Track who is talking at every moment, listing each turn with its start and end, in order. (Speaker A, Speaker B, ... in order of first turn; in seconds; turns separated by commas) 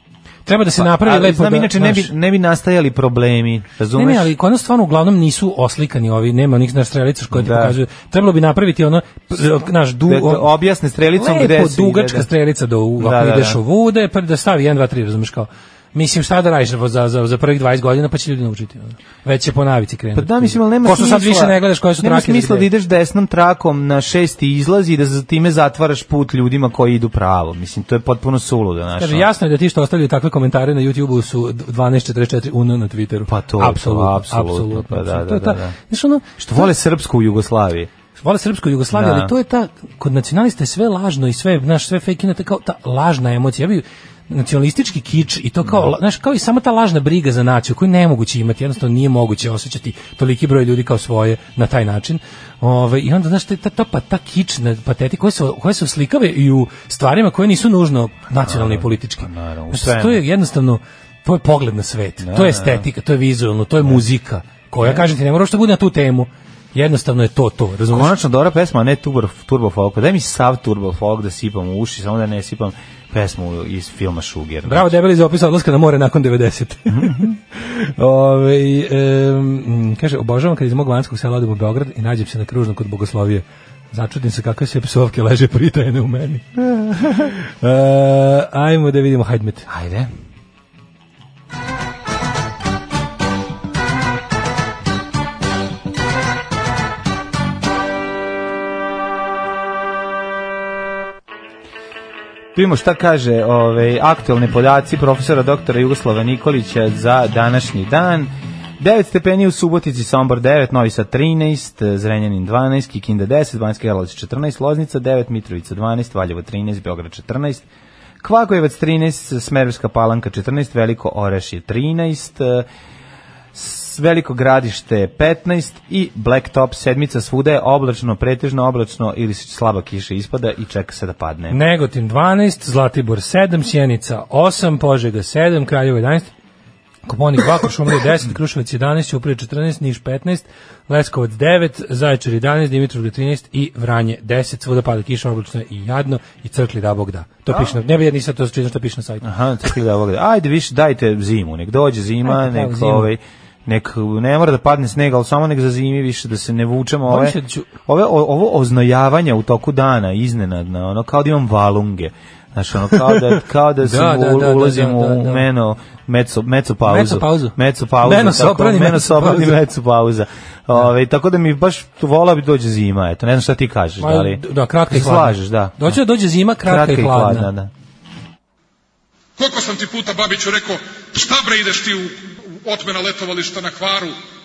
Speaker A: 0.5-2.1, Speaker B: 0.8-4.3, Speaker A: 4.0-10.4, Speaker B: 7.3-7.8, Speaker B: 10.0-12.3, Speaker A: 11.1-22.7, Speaker B: 13.0-13.6, Speaker B: 20.1-29.2, Speaker A: 29.0-36.7, Speaker B: 33.3-35.7, Speaker B: 36.4-37.9, Speaker A: 38.1-68.1, Speaker B: 38.9-39.3, Speaker B: 58.4-60.2, Speaker B: 62.2-62.9, Speaker B: 64.8-65.1, Speaker B: 67.9-74.9, Speaker A: 74.7-89.7, Speaker B: 76.9-77.3, Speaker B: 89.7-90.1, Speaker B: 102.5-117.7, Speaker B: 118.2-122.7, Speaker B: 123.5-131.6, Speaker A: 131.5-136.3, Speaker A: 137.1-149.2, Speaker B: 149.2-176.0, Speaker A: 152.2-153.1, Speaker A: 157.1-157.7, Speaker A: 162.9-165.4, Speaker A: 166.8-169.6, Speaker A: 174.0-177.5, Speaker B: 176.6-177.7, Speaker C: 179.4-184.2